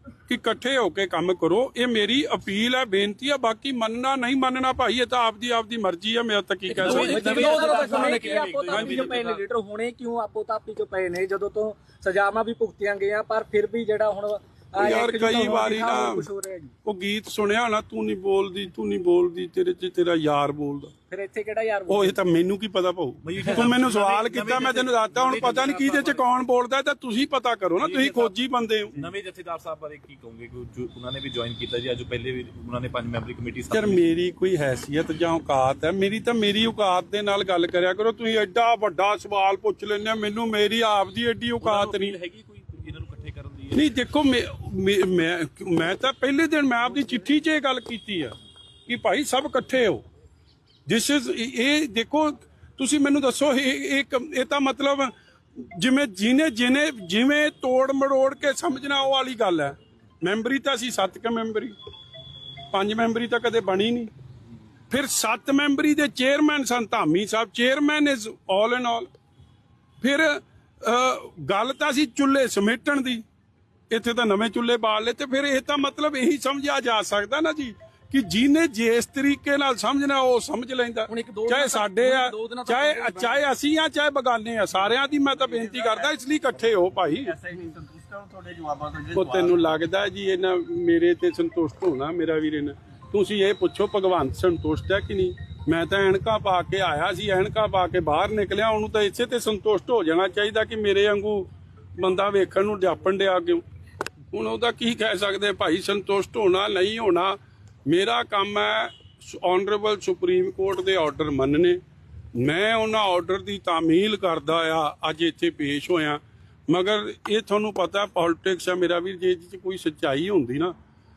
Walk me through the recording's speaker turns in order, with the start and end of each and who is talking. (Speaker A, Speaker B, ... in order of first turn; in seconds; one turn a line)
Speaker A: 0.3-9.1
Speaker B: 6.7-9.4
Speaker C: 6.8-16.7
Speaker A: 14.8-16.2
Speaker A: 16.8-20.9
Speaker C: 21.1-22.2
Speaker A: 21.9-29.0
Speaker B: 23.2-26.2
Speaker B: 27.8-28.3
Speaker B: 28.9-34.0
Speaker A: 33.7-42.2
Speaker B: 41.6-44.0
Speaker A: 43.7-48.3
Speaker A: 48.9-50.0
Speaker A: 50.9-61.7
Speaker A: 62.7-64.1
Speaker A: 64.9-69.1
Speaker A: 70.0-73.2
Speaker A: 73.9-87.4
Speaker C: 81.1-83.4
Speaker B: 87.5-89.5
Speaker A: 89.1-103.6
Speaker A: 104.3-111.8
Speaker A: 112.3-120.7